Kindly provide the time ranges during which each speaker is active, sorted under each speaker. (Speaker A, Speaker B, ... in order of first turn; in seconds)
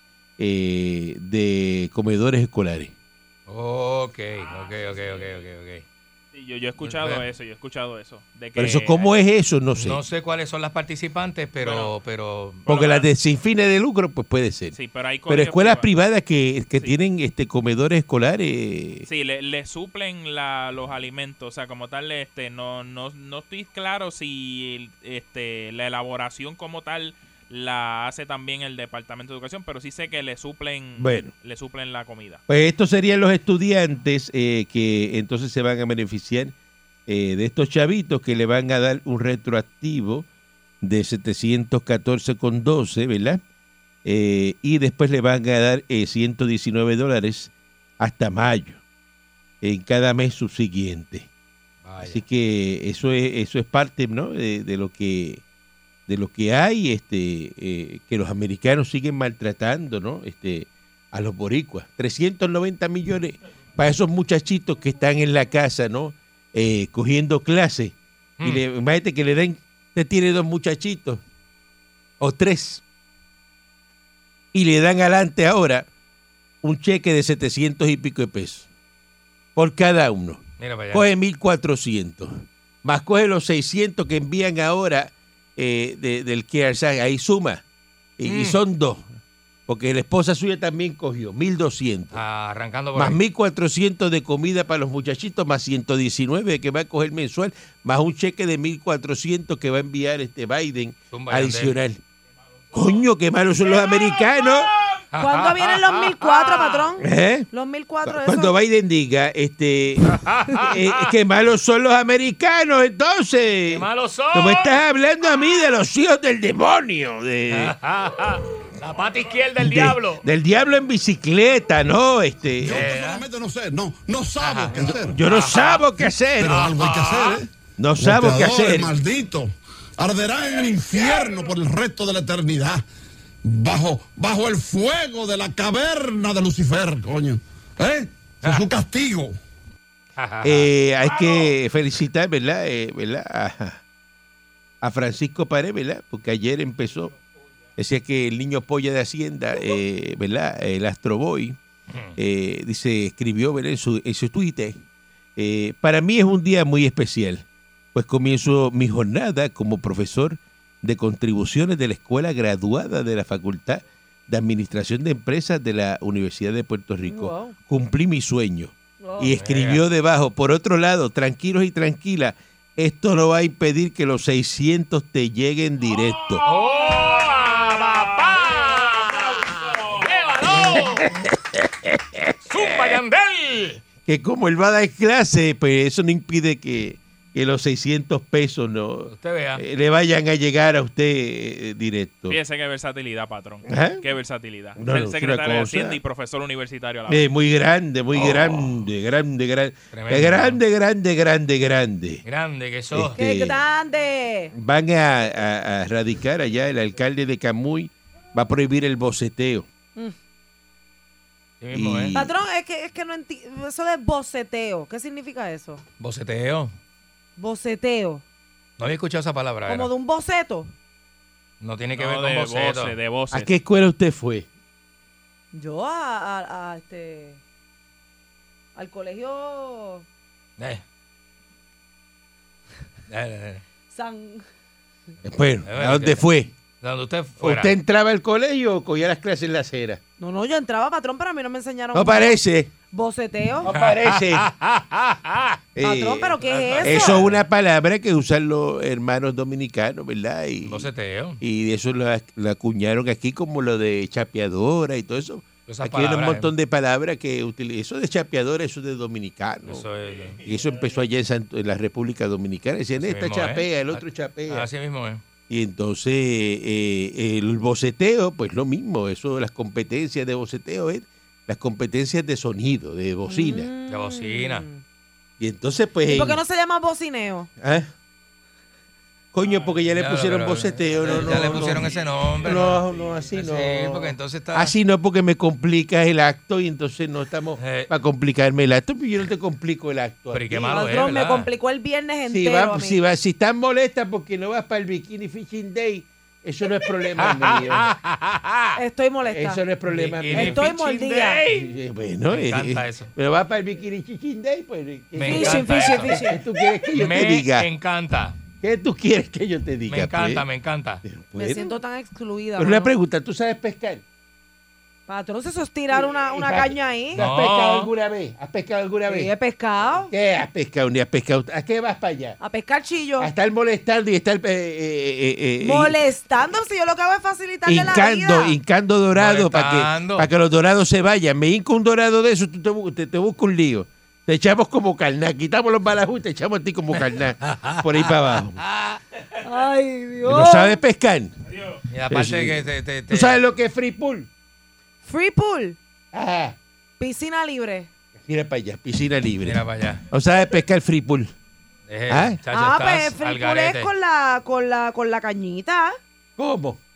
Speaker A: 0.4-3.0, 8.6-10.0, 12.7-19.1, 31.0-31.3, 32.5-36.5, 37.1-40.3, 40.8-43.4, 44.0-48.8, 49.6-51.3, 52.0-55.4, 56.1-71.2, 72.2-72.8, 74.5-75.9, 76.6-78.7, 79.5-87.6, 88.2-89.1, 89.7-92.2, 92.9-102.0, 102.7-104.7, 107.0-107.5, 108.0-117.8, 119.6-122.9, 124.8-126.7, 127.8-128.9, 140.4-143.8, 144.8-147.1, 147.8-151.6, 152.2-154.8, 155.4-176.5, 180.5-183.0, 184.1-192.4, 193.7-194.0, 194.8-196.0, 197.1-202.2, 202.9-203.6, 204.5-209.7, 211.7-212.3, 223.3-224.5, 235.2-236.5, 237.4-240.0, 241.9-242.7, 243.6-244.5, 245.8-250.9, 251.4-259.9, 260.4-264.7, 265.5-273.7, 275.4-276.4, 277.6-277.9, 279.3-291.0, 292.3-297.9, 299.2-307.7, 308.6-310.4, 311.1-311.8, 312.6-314.0, 315.9-319.3, 320.1-322.4, 323.2-326.0, 327.7-338.6, 340.2-341.4, 342.1-344.3, 346.1-346.6, 348.2-351.3, 352.1-352.4, 356.4-356.8
Speaker B: 3.5-5.8, 6.8-7.2, 9.8-12.7, 51.8-52.2, 80.6-81.0, 88.2-88.6, 92.1-93.2, 101.1-101.8, 105.1-106.9, 110.0-111.1, 113.7-114.8, 117.5-120.2, 122.7-123.3, 124.4-125.9, 126.5-127.4, 140.2-140.7, 151.9-152.2, 169.2-169.8, 176.4-181.3, 182.4-183.8, 189.1-189.6, 198.2-198.6, 199.9-200.6, 202.2-203.2, 211.6-212.2, 216.0-216.8, 218.8-219.9, 221.6-222.9, 230.6-230.8, 233.1-233.6, 235.7-236.2, 236.8-237.7, 243.7-245.6, 246.4-247.4, 250.6-251.4, 255.7-256.5, 259.7-260.4, 263.0-265.2, 273.9-274.7, 279.9-282.8, 283.3-284.7, 287.6-287.9, 290.3-291.5, 297.2-298.8, 299.9-300.6, 302.3-303.1, 305.2-306.2, 306.9-308.4, 309.9-311.0, 317.1-317.9, 329.1-330.3, 337.0-339.0, 341.9-343.4, 349.4-350.1, 351.9-353.9
Speaker C: 4.4-5.4, 6.3-9.1, 11.6-11.9, 12.7-13.1, 14.7-15.9, 19.1-32.4, 102.7-103.0, 103.8-105.0, 176.3-180.3, 192.3-197.3, 222.0-223.5, 279.4-279.7, 281.1-283.2
Speaker D: 105.2-108.5, 167.0-167.6, 169.0-169.3, 203.2-204.5, 212.1-215.8, 217.4-218.2, 219.7-220.7, 225.5-227.4, 228.8-230.1, 233.9-234.4, 240.2-242.4, 242.9-243.7, 245.8-247.2, 273.3-274.8, 276.1-277.5, 290.7-293.0, 298.8-299.6, 300.3-301.4, 305.3-306.4, 311.4-312.9, 315.1-317.2, 319.1-320.1, 322.4-323.3, 325.6-328.6, 339.4-340.8, 345.0-345.8, 347.0-347.9, 352.5-356.0
Speaker E: 122.6-125.2, 126.4-132.8, 133.4-139.3